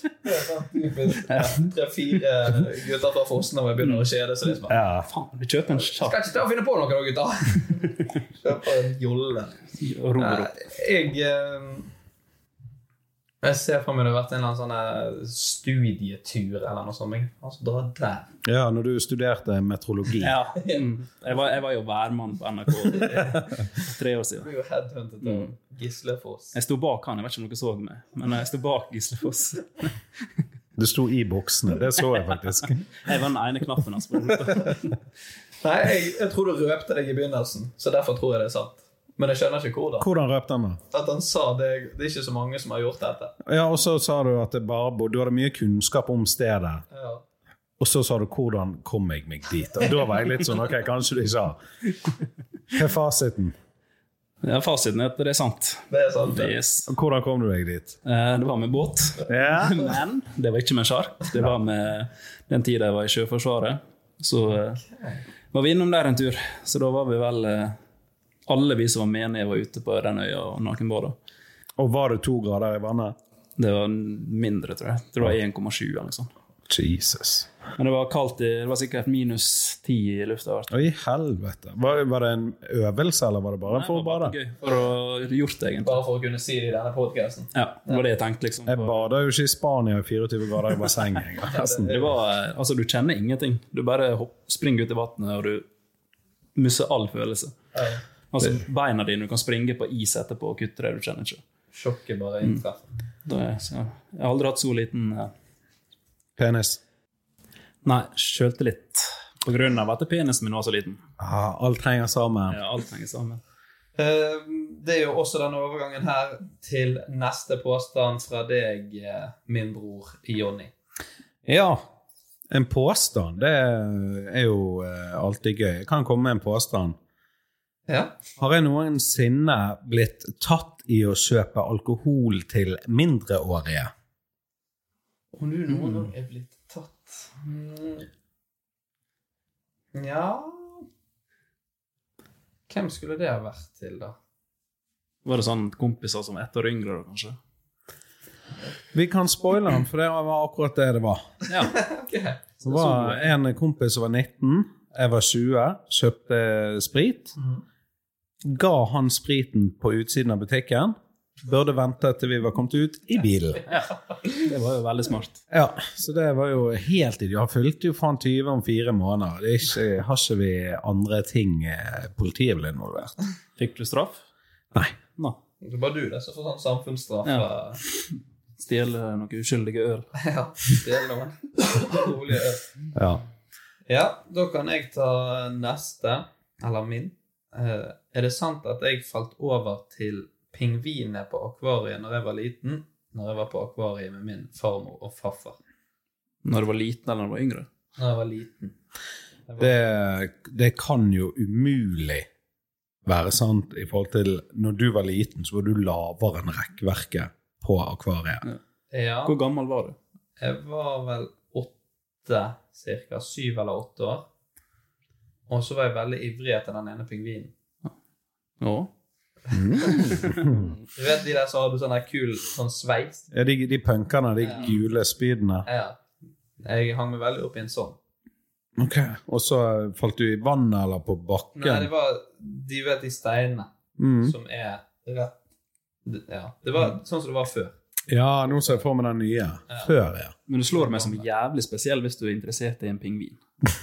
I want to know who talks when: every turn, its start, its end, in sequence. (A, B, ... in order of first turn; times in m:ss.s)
0:00.2-0:04.8 A
0:01.3-0:01.7 B
0:04.7-0:05.1 C
0:05.0-0:06.2 B
0:05.7-0:09.6 A
0:09.8-0:10.6 B
0:10.2-0:11.9 A
0:13.4-0:18.3 A
0:18.4-0:20.3 C
0:20.2-0:24.5 B
0:24.4-0:26.5 A
0:25.2-0:25.5 B
0:26.5-0:29.9 B
0:30.8-0:33.0 C
0:33.0-0:35.0 B
0:35.6-0:40.0 A
0:40.0-0:40.8 C
0:40.9-0:43.3 A
0:43.4-0:46.8 C
0:46.9-0:47.2 A
0:47.8-0:51.6 C
0:52.7-0:53.5 C
0:54.4-0:56.9 B
0:55.9-0:56.6 A
0:56.9-0:58.0 C
0:58.0-1:04.8 B
0:59.3-0:59.8 C
1:04.9-1:05.2 A
1:05.5-1:07.8 B
1:08.5-1:11.2 B
1:11.8-1:13.2 C
1:13.6-1:16.3 B
1:16.7-1:17.5 C
1:17.8-1:20.7 B
1:20.7-1:24.3 C
1:23.7-1:26.0 B
1:25.8-1:28.0 A
1:27.5-1:29.0 B
1:28.6-1:32.1 C
1:31.5-1:31.9 A
1:31.8-1:35.6 B
1:36.6-1:37.5 B
1:37.7-1:38.0 A
1:38.3-1:41.4 B
1:41.7-1:42.9 A
1:43.2-1:45.3 B
1:46.4-1:46.8 C
1:47.8-1:51.0 B
1:51.2-1:52.6 C
1:52.5-1:53.4 B
1:54.0-2:00.7 A
2:01.4-2:01.8 C
2:02.5-2:07.0 C
2:07.9-2:08.2 A
2:08.4-2:13.9 C
2:15.3-2:18.1 A
2:19.9-2:20.8 A
2:22.7-2:24.2 A
2:25.2-2:27.4 B
2:28.9-2:31.2 C
2:31.5-2:31.8 B
2:31.7-2:32.4 A
2:32.6-2:37.3 C
2:32.6-2:33.3 B
2:37.4-2:37.6 A
2:38.4-2:43.6 C
2:43.7-2:45.4 B
2:45.5-2:53.1 C
2:53.6-2:54.2 B
2:55.6-2:57.8 A
2:57.2-2:57.5 B
2:58.6-3:00.1 B
3:00.2-3:02.6 A
3:02.9-3:03.2 C
3:03.9-3:15.6 A
3:16.4-3:17.7 B
3:18.0-3:18.7 A
3:19.5-3:19.7 A
3:19.6-3:22.2 C
3:23.0-3:28.4 C
3:28.9-3:29.4 A
3:29.2-3:30.0 B
3:30.4-3:31.7 A
3:32.2-3:34.2 A
3:35.5-3:37.5 A
3:38.6-3:38.9 B
3:39.5-3:40.7 C
3:40.1-3:40.4 B
3:40.9-3:43.3 A
3:43.3-3:45.6 C
3:45.6-3:46.0 A
3:46.6-3:48.0 A
3:48.8-3:51.9 C
3:51.6-3:55.3 A
3:54.0-3:54.3 C
3:56.0-3:57.7 A
3:58.1-4:00.3 C
3:58.5-3:58.8 A
4:00.5-4:03.4 B
4:00.7-4:01.2 A